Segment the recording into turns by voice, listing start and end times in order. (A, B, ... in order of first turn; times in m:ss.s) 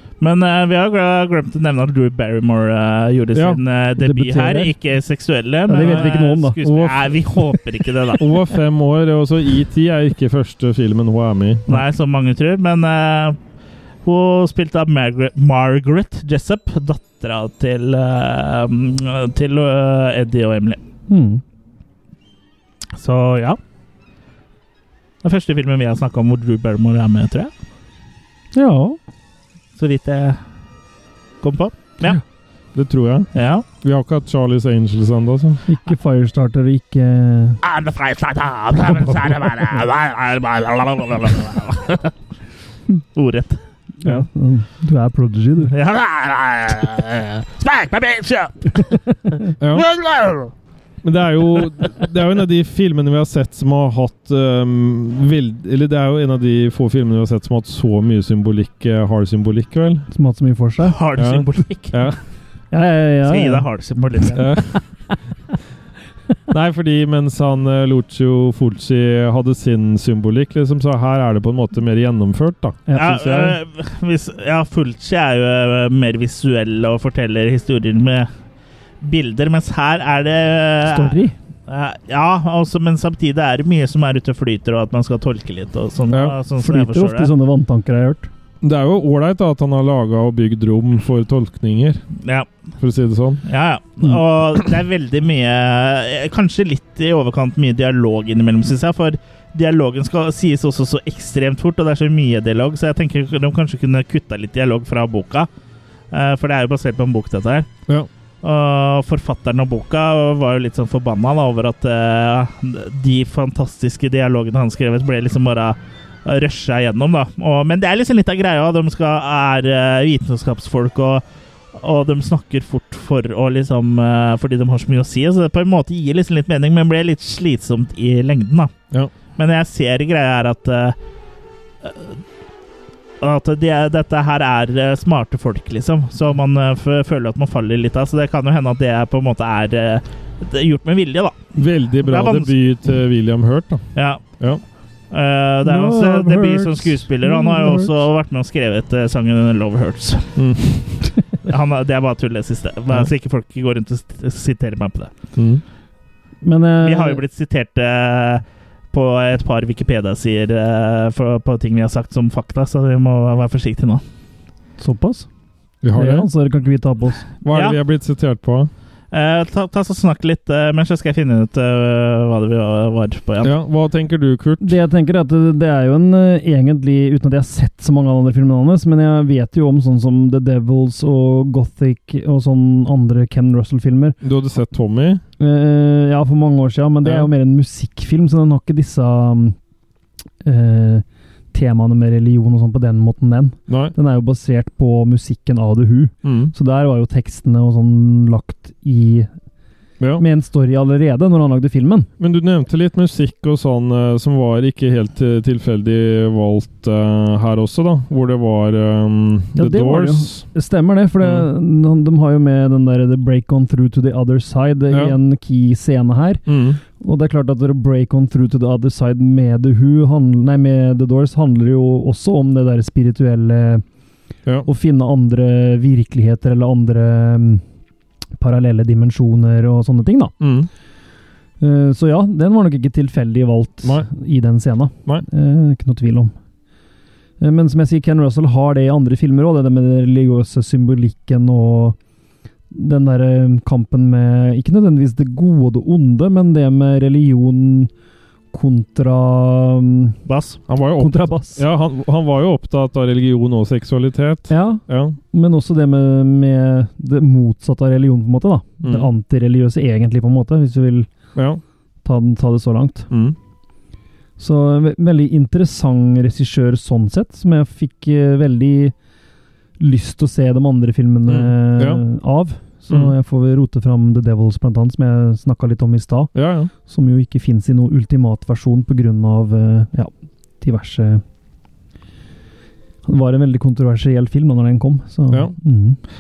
0:00.2-0:08.2 A
0:03.4-0:03.6 B
0:04.0-0:04.7 C
0:05.7-0:06.6 C
0:05.8-0:07.2 B
0:08.2-0:11.7 B
0:11.7-0:13.4 A
0:14.0-0:20.8 A
0:21.1-0:21.4 C
0:23.0-0:23.6 A
0:25.2-0:27.5 A
0:28.5-0:29.0 C
0:29.8-0:30.4 A
0:31.4-0:32.2 A
0:32.7-0:35.6 B
0:33.3-0:33.6 A
0:35.7-0:37.6 C
0:37.6-0:42.1 A
0:43.1-0:43.6 A
0:44.0-0:45.7 C
0:45.7-0:49.0 A
0:49.6-0:49.9 B
0:49.7-0:50.5 A
0:51.0-1:00.1 B
1:00.1-1:01.0 C
1:00.8-1:02.1 A
1:01.2-1:02.2 B
1:02.7-1:04.0 C
1:03.3-1:04.4 A
1:04.4-1:04.9 B
1:06.5-1:13.5 B
1:12.9-1:13.4 C
1:13.0-1:18.3 A
1:19.0-1:27.3 A
1:20.8-1:21.4 C
1:26.1-1:26.4 B
1:26.6-1:28.3 C
1:28.6-1:32.0 B
1:32.2-1:32.5 A
1:32.8-1:33.4 B
1:33.4-1:45.5 A
1:46.1-1:47.7 A
1:48.4-2:08.7 A
2:09.4-2:11.0 A
2:11.8-2:12.2 A
2:13.2-2:21.4 A
2:21.6-2:24.6 B
2:22.0-2:22.6 A
2:24.0-2:24.2 A
2:25.1-2:30.4 A
2:25.6-2:28.0 C
2:30.4-2:31.1 B
2:31.4-2:35.1 A
2:35.4-2:35.6 B
2:36.4-2:37.2 C
2:36.8-2:44.0 A
2:44.8-2:45.3 C
2:45.8-2:46.3 B
2:45.9-2:47.3 C
2:47.4-2:48.7 B
2:47.5-2:47.8 A
2:49.1-2:53.5 A
2:53.4-2:54.8 B
2:54.6-3:04.2 C
3:04.2-3:05.2 B
3:05.4-3:09.6 C
3:07.0-3:07.3 B
3:10.4-3:19.3 C
3:13.7-3:14.0 B
3:16.2-3:16.5 B
3:20.2-3:22.1 C
3:22.2-3:30.4 B
3:29.6-3:36.5 C
3:31.2-3:31.5 B
3:34.9-3:35.2 B
3:36.5-3:36.8 B
3:37.0-3:43.8 C
3:44.7-3:47.6 C
3:48.4-3:50.4 C
3:50.4-3:50.7 B
3:51.6-3:56.3 C
3:53.8-3:54.1 B
3:57.4-4:02.0 C
4:02.7-4:07.9 C
4:08.5-4:10.2 C
4:10.3-4:10.6 A
4:10.7-4:15.2 B
4:11.0-4:11.6 C
4:14.5-4:21.1 C
4:18.8-4:19.1 B
4:21.4-4:21.6 B
4:22.0-4:23.1 C
4:23.1-4:23.4 B
4:24.4-4:28.9 C
4:29.8-4:41.2 C
4:31.3-4:32.0 B
4:32.9-4:33.1 B
4:36.3-4:36.7 B
4:43.1-4:46.0 C
4:45.3-4:45.6 B